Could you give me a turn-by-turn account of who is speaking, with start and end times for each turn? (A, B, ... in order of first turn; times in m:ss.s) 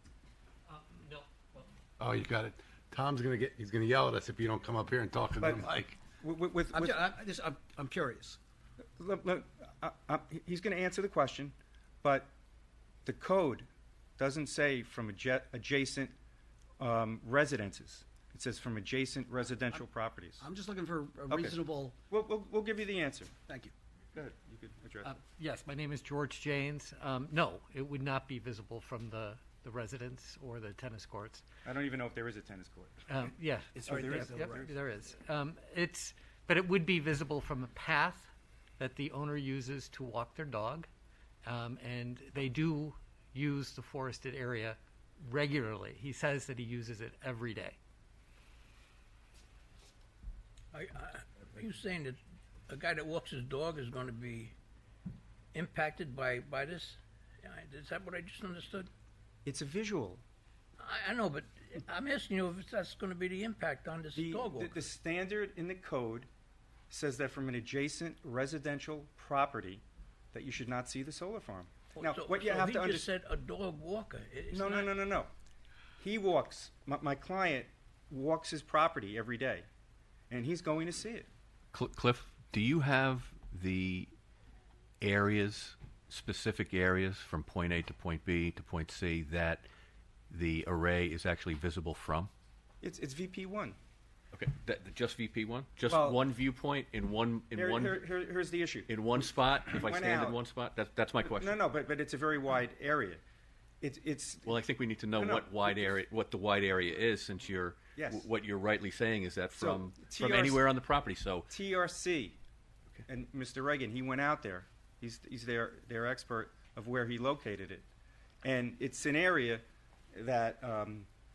0:00.7-0:01.7 A
0:02.0-0:06.0 B
0:05.4-0:07.0 C
0:06.7-0:08.4 D
0:09.0-0:12.3 C
0:13.1-0:13.7 C
0:14.2-0:16.2 C
0:16.8-0:20.4 C
0:20.4-0:22.0 D
0:21.3-0:21.6 C
0:22.1-0:23.3 C
0:23.5-0:23.7 D
0:24.1-0:25.2 C
0:25.0-0:31.4 A
0:31.6-0:33.1 C
0:33.1-0:40.9 A
0:33.7-0:34.8 C
0:33.8-0:34.6 D
0:41.4-0:47.8 A
0:50.7-0:54.6 E
0:55.5-0:58.9 E
0:59.4-1:00.2 C
1:00.8-1:04.8 E
1:04.2-1:06.3 C
1:06.9-1:13.1 C
1:12.0-1:15.0 E
1:14.5-1:15.3 C
1:16.0-1:19.7 C
1:20.3-1:21.3 C
1:21.7-1:24.1 F
1:25.0-1:29.7 F
1:30.3-1:32.3 F
1:32.8-1:33.8 C
1:34.3-1:38.0 F
1:35.9-1:36.2 C
1:37.5-1:38.9 C
1:38.9-1:41.6 F
1:39.7-1:40.4 C
1:41.3-1:43.2 C
1:43.8-1:44.6 C
1:44.5-1:51.5 F
1:45.1-1:45.6 C
1:48.0-1:48.3 C
1:49.6-1:50.6 C
1:51.5-1:52.4 C
1:53.1-1:57.9 C
1:58.4-2:01.1 C